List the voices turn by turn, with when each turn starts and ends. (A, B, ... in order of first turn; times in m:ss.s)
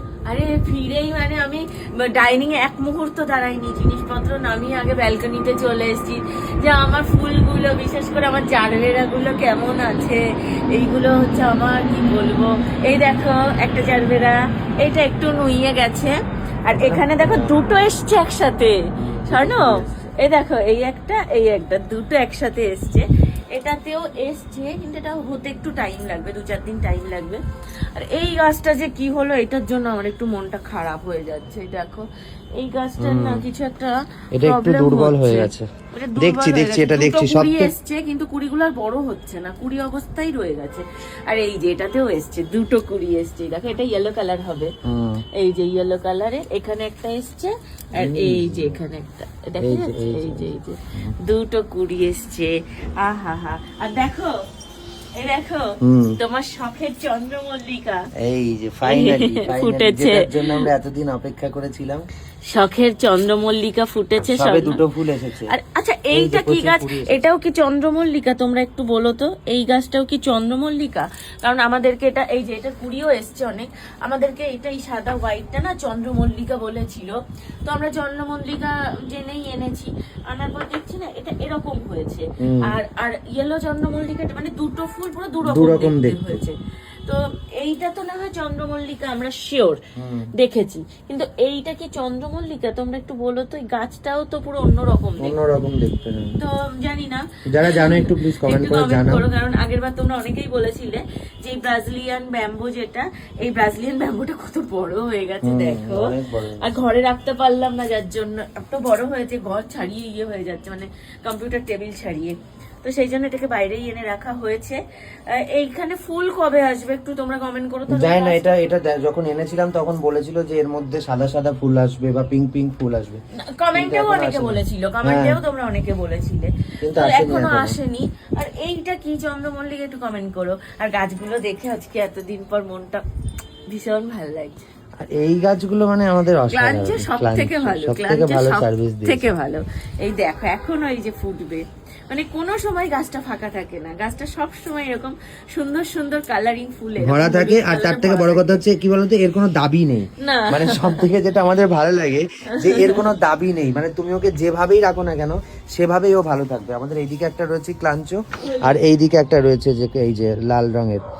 0:00.3-0:27.4 A
0:16.8-0:17.6 B
0:19.0-0:20.1 B
0:27.9-0:44.7 A
0:33.0-0:33.4 B
0:34.3-0:35.6 B
0:36.2-0:37.7 B
0:44.8-0:45.2 B
0:45.3-0:54.4 A
0:48.0-0:48.8 B
0:49.6-0:51.1 B
0:55.1-0:58.1 A
0:55.8-0:56.2 B
0:58.2-1:02.0 B
0:58.9-1:00.7 A
1:02.5-1:04.8 A
1:04.2-1:05.5 B
1:05.5-1:29.8 A
1:06.1-1:07.2 B
1:22.4-1:22.8 B
1:25.4-1:26.4 B
1:30.0-1:30.3 B
1:30.3-1:35.3 A
1:35.2-1:36.4 B
1:36.4-1:58.5 A
1:37.5-1:39.2 B
1:45.4-1:46.7 B
1:57.9-2:03.2 B
2:03.4-2:13.0 A
2:03.7-2:05.4 B
2:06.8-2:07.8 B
2:13.7-2:14.6 A
2:15.0-2:19.3 B
2:16.5-2:28.6 A
2:27.0-2:41.0 B
2:30.2-2:31.1 A
2:32.5-2:33.1 A
2:38.4-2:38.8 A